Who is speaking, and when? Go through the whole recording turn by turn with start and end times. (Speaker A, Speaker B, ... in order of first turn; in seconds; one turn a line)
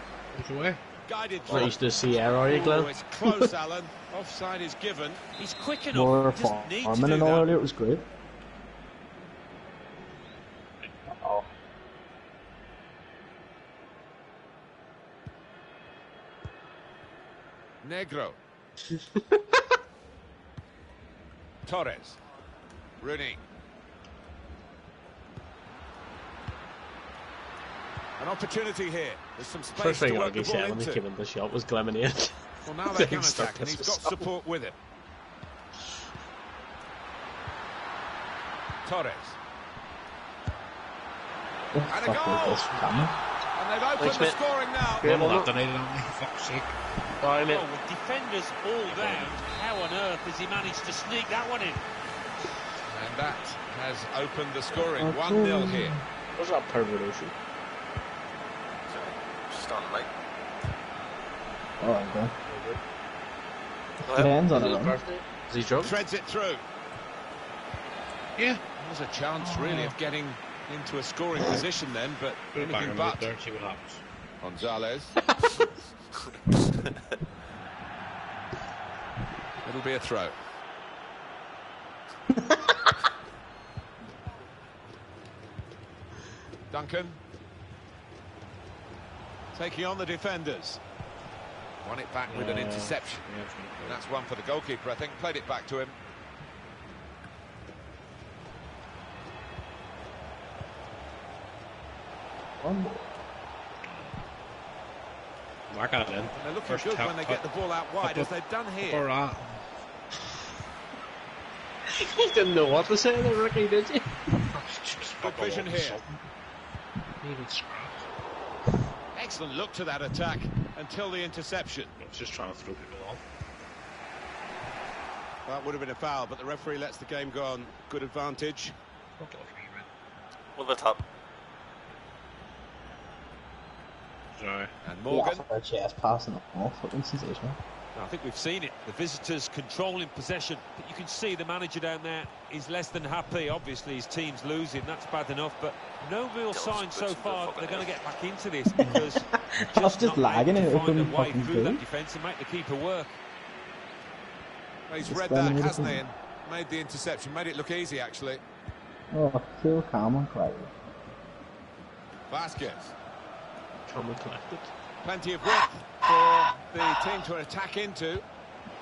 Speaker A: 0.3-0.8
Speaker B: 1.1-5.2
Speaker C: 1.5-1.8
Speaker D: 1.5-3.5
Speaker E: 5.4-7.5
Speaker F: 5.9-8.1
Speaker B: 17.8-18.4
Speaker B: 21.7-22.2
Speaker B: 23.0-23.4
Speaker B: 28.2-31.0
Speaker D: 29.8-34.2
Speaker B: 32.6-34.8
Speaker B: 38.9-39.4
Speaker F: 41.7-43.2
Speaker B: 41.9-43.0
Speaker B: 43.5-45.2
Speaker D: 44.0-44.4
Speaker D: 45.0-45.5
Speaker A: 45.0-46.7
Speaker D: 47.2-47.7
Speaker E: 47.5-51.9
Speaker B: 48.9-49.2
Speaker B: 52.9-56.0
Speaker F: 54.7-56.0
Speaker D: 56.4-57.4
Speaker C: 58.9-60.1
Speaker F: 61.8-62.4
Speaker D: 62.5-62.8
Speaker C: 64.0-64.4
Speaker F: 64.1-65.0
Speaker D: 64.5-66.0
Speaker B: 65.8-66.6
Speaker A: 68.4-68.6
Speaker B: 68.8-73.3
Speaker A: 72.5-74.0
Speaker B: 74.4-75.1
Speaker B: 79.6-80.4
Speaker B: 86.7-87.2
Speaker B: 89.5-90.8
Speaker B: 91.8-93.3
Speaker A: 92.3-94.0
Speaker B: 93.8-96.0
Speaker F: 102.6-103.1
Speaker A: 103.8-104.2
Speaker A: 105.7-107.4
Speaker B: 106.4-109.0
Speaker A: 108.0-108.3
Speaker A: 108.9-109.5
Speaker D: 112.0-114.2
Speaker A: 114.4-116.2
Speaker B: 115.2-116.0
Speaker A: 117.2-118.0
Speaker B: 119.1-121.9
Speaker A: 122.0-123.2
Speaker B: 125.5-128.8
Speaker A: 129.2-129.9
Speaker C: 130.6-131.0
Speaker A: 134.3-134.7
Speaker B: 134.8-135.4
Speaker F: 135.1-137.6
Speaker E: 137.9-153.2
Speaker C: 146.5-148.0
Speaker F: 148.8-151.8
Speaker B: 154.9-158.4
Speaker F: 155.0-156.0
Speaker F: 159.1-160.7
Speaker B: 162.3-162.9
Speaker D: 163.9-164.7
Speaker B: 165.0-168.2